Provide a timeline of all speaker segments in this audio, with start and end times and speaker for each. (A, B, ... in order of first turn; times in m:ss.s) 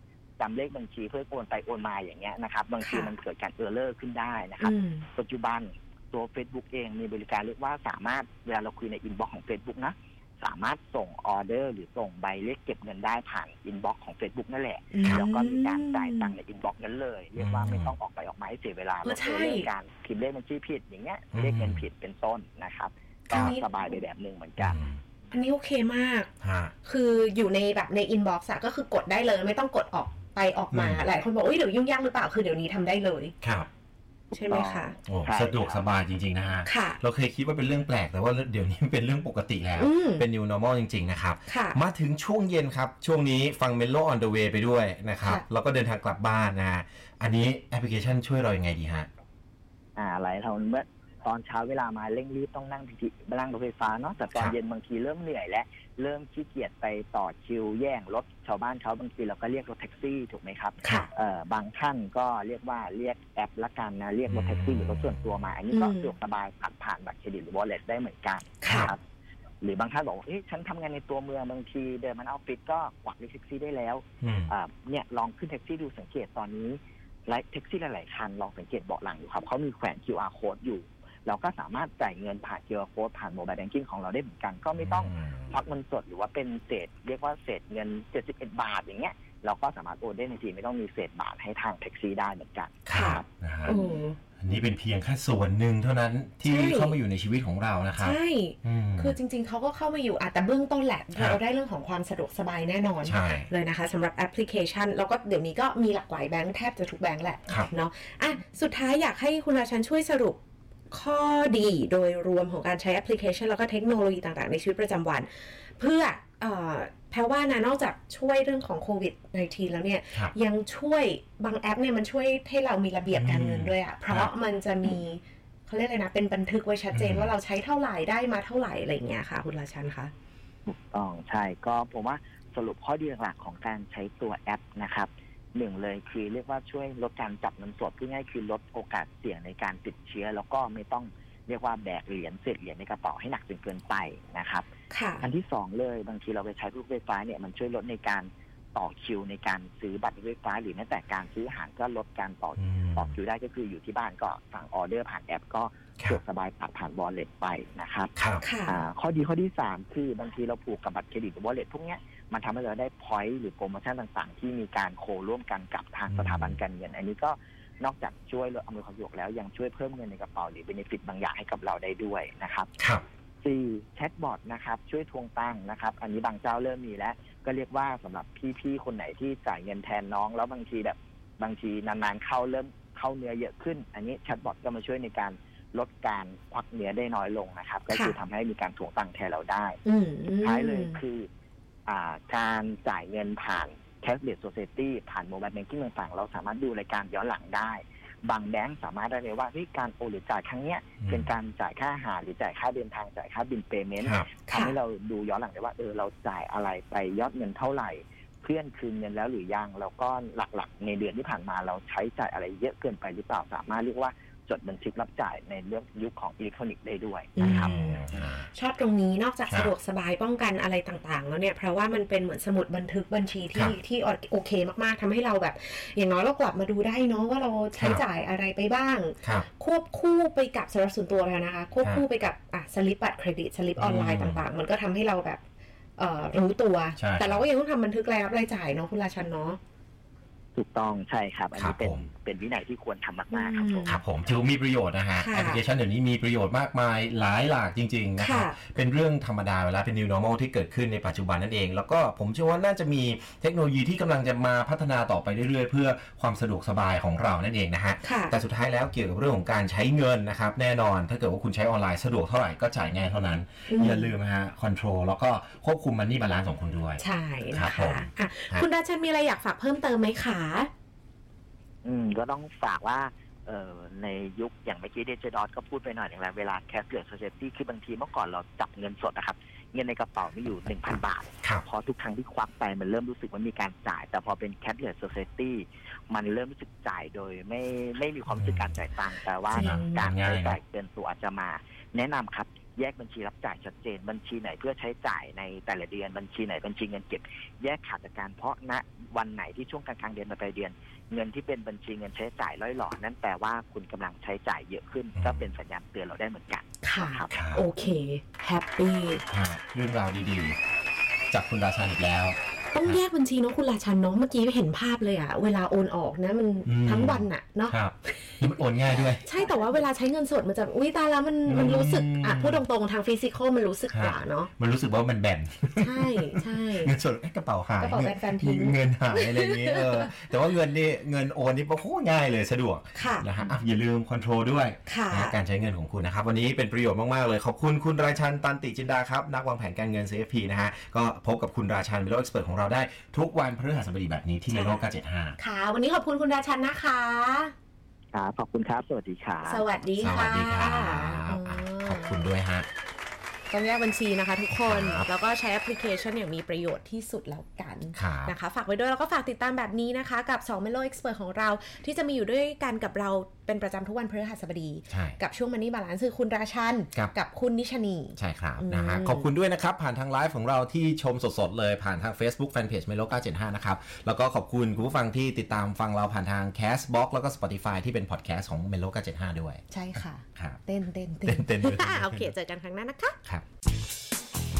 0:00.4-0:24.8 A
0:02.8-0:03.1 B
0:04.6-0:05.0 B
0:14.9-0:16.3 B
0:17.4-0:17.9 C
0:19.0-0:19.7 B
0:21.3-0:21.8 C
0:23.3-0:23.7 B
0:24.6-0:25.0 C
0:25.3-0:26.3 B
0:26.4-0:26.7 C
0:26.8-0:33.3 B
0:30.7-0:31.1 C
0:33.4-0:33.7 C
0:34.3-0:35.8 A
0:34.3-0:35.0 B
0:35.1-0:49.1 C
0:36.6-0:37.0 B
0:39.8-0:40.2 B
0:41.5-0:41.8 B
0:50.0-1:09.0 A
1:00.8-1:01.1 B
1:04.3-1:05.5 C
1:05.7-1:06.1 B
1:08.6-1:08.9 B
1:08.6-1:08.9 C
1:09.6-1:33.2 A
1:14.2-1:14.5 C
1:24.8-1:25.6 C
1:32.8-1:33.8 C
1:32.9-1:34.2 B
1:34.4-1:39.2 C
1:36.4-1:37.0 B
1:38.0-2:10.1 B
1:43.0-1:43.5 C
2:03.1-2:04.3 C
2:06.9-2:07.3 C
2:10.6-2:24.7 A
2:24.9-2:25.3 B
2:25.2-2:38.1 A
2:32.6-2:33.1 C
2:38.2-2:38.4 C
2:38.4-2:38.8 B
2:38.6-2:52.7 A
2:46.1-2:46.6 C
2:53.4-3:09.8 A
3:07.9-3:08.2 B
3:09.8-3:11.0 B
3:10.4-3:11.3 A
3:11.9-3:37.7 A
3:21.0-3:21.3 C
3:24.0-3:24.3 C
3:24.5-3:24.7 B
3:37.4-3:55.4 B
3:37.4-3:38.5 C
3:39.5-3:39.7 C
3:47.8-3:48.0 C
3:53.8-3:54.4 C
3:56.0-3:59.6 B
3:57.0-3:57.4 C
4:00.5-4:04.0 A
4:01.5-4:02.0 C
4:03.3-4:04.0 B
4:03.8-4:28.6 C
4:05.2-4:05.6 B
4:08.2-4:08.6 B
4:18.0-4:18.3 B
4:23.7-4:24.1 B
4:27.0-4:30.7 B
4:31.8-5:07.4 A
4:48.4-4:48.8 C
4:49.5-4:50.0 B
4:49.5-4:50.6 C
5:05.2-5:05.5 C
5:06.8-5:09.2 B
5:07.3-5:07.6 C
5:09.3-5:10.6 C
5:11.3-5:13.0 C
5:12.7-5:24.5 B
5:16.6-5:19.2 C
5:19.3-5:19.8 A
5:21.4-5:22.6 C
5:23.9-5:45.4 C
5:25.8-5:26.9 B
5:27.8-5:30.2 B
5:32.9-5:33.3 B
5:34.8-5:35.4 B
5:44.5-5:44.8 B
5:45.4-5:47.5 B
5:48.1-5:49.6 A
5:49.4-5:52.3 B
5:50.0-5:52.7 C
5:53.5-6:09.3 B
5:54.5-5:55.1 C
5:57.9-5:58.3 C
6:04.9-6:05.2 C
6:08.2-6:20.6 C
6:19.7-6:23.2 B
6:21.2-6:22.3 C